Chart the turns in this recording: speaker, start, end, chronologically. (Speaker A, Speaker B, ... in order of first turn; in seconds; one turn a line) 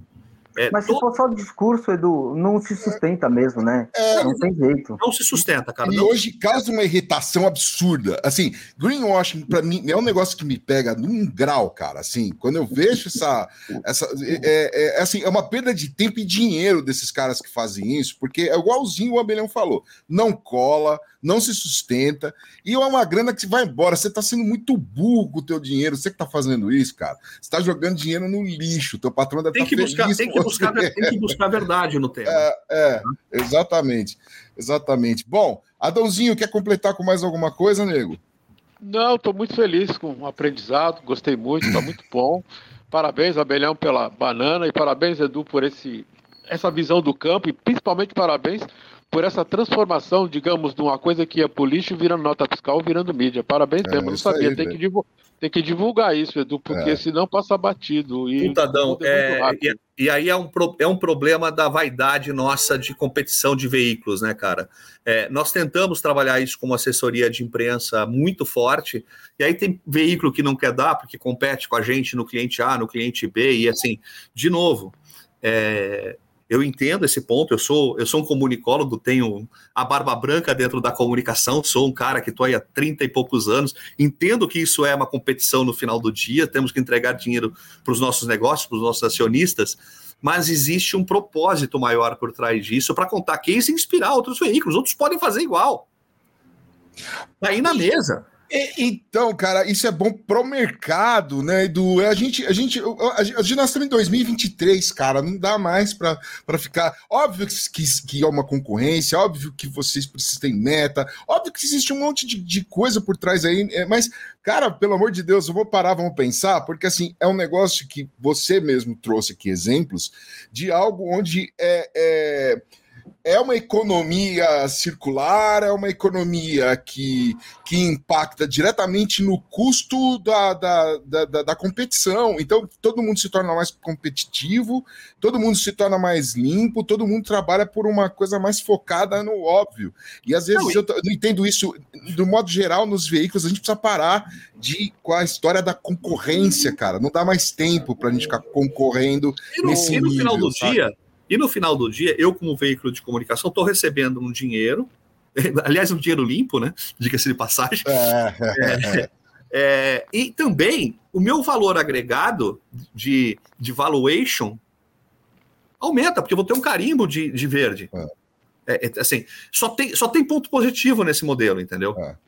Speaker A: 0.6-1.0
Speaker B: 0.7-5.0
Speaker C: 3.9-4.3
Speaker A: 5.0-6.1
Speaker C: 5.8-31.3
Speaker A: 29.5-32.5
Speaker C: 32.2-38.2
Speaker D: 38.8-59.7
Speaker C: 53.8-54.8
Speaker C: 56.7-57.0
Speaker A: 58.4-95.9
Speaker A: 97.4-98.2
Speaker C: 98.5-122.6
Speaker C: 123.2-150.8
Speaker A: 140.5-140.8
Speaker A: 149.5-157.9
Speaker C: 157.8-159.1
Speaker A: 158.5-164.6
Speaker A: 165.8-167.9
Speaker A: 168.7-172.0